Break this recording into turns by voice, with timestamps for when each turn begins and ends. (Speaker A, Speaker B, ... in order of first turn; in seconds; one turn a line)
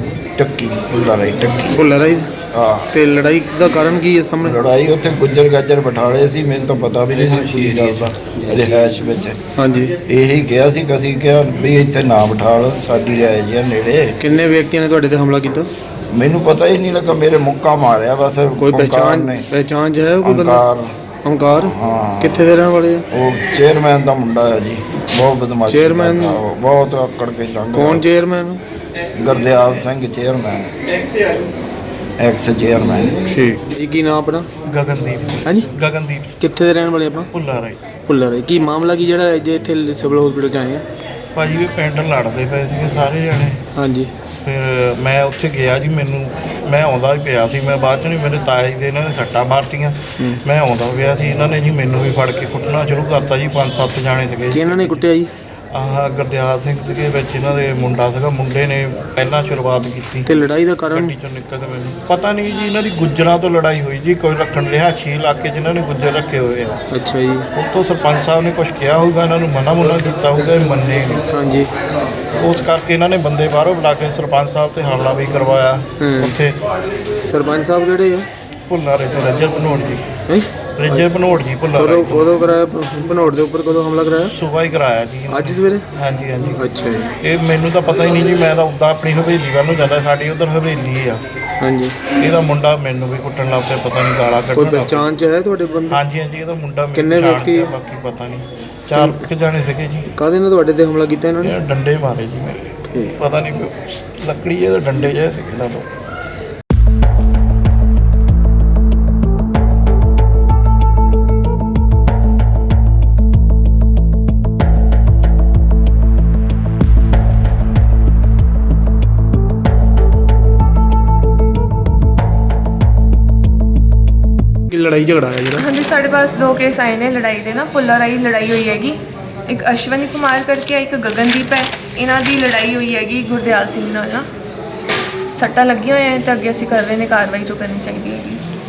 Speaker A: 0.4-1.8
Speaker B: 1.7-2.3
Speaker A: 2.5-2.9
Speaker B: 2.9-4.6
Speaker A: 4.4-9.4
Speaker B: 9.6-9.9
Speaker A: 10.1-14.1
Speaker B: 14.2-15.7
Speaker A: 16.1-19.5
Speaker B: 18.6-20.6
Speaker A: 20.2-20.9
Speaker B: 21.2-23.1
Speaker A: 21.6-22.5
Speaker A: 23.1-28.1
Speaker B: 25.7-26.4
Speaker B: 27.7-28.6
Speaker A: 29.1-31.3
Speaker A: 32.2-33.2
Speaker B: 33.3-34.5
Speaker C: 34.7-36.4
Speaker B: 36.4-37.3
Speaker C: 37.3-37.9
Speaker B: 38.0-40.8
Speaker C: 41.4-43.6
Speaker B: 43.8-44.1
Speaker C: 44.4-55.0
Speaker B: 54.5-55.3
Speaker C: 55.7-60.3
Speaker B: 60.3-61.1
Speaker C: 60.9-66.8
Speaker B: 66.9-67.5
Speaker C: 67.6-71.2
Speaker B: 71.3-71.7
Speaker C: 72.4-76.6
Speaker B: 76.0-76.3
Speaker B: 77.3-78.3
Speaker C: 78.7-80.1
Speaker B: 80.3-81.0
Speaker C: 80.8-82.3
Speaker B: 81.8-84.3
Speaker C: 84.3-86.7
Speaker B: 85.3-85.9
Speaker B: 86.6-87.1
Speaker C: 87.2-91.2
Speaker B: 91.6-92.1
Speaker C: 92.1-95.1
Speaker B: 94.5-96.0
Speaker C: 95.9-100.1
Speaker B: 96.9-97.7
Speaker B: 99.0-99.2
Speaker B: 100.2-101.5
Speaker C: 101.4-105.9
Speaker B: 124.7-125.7
Speaker D: 125.6-134.3
Speaker D: 135.4-138.4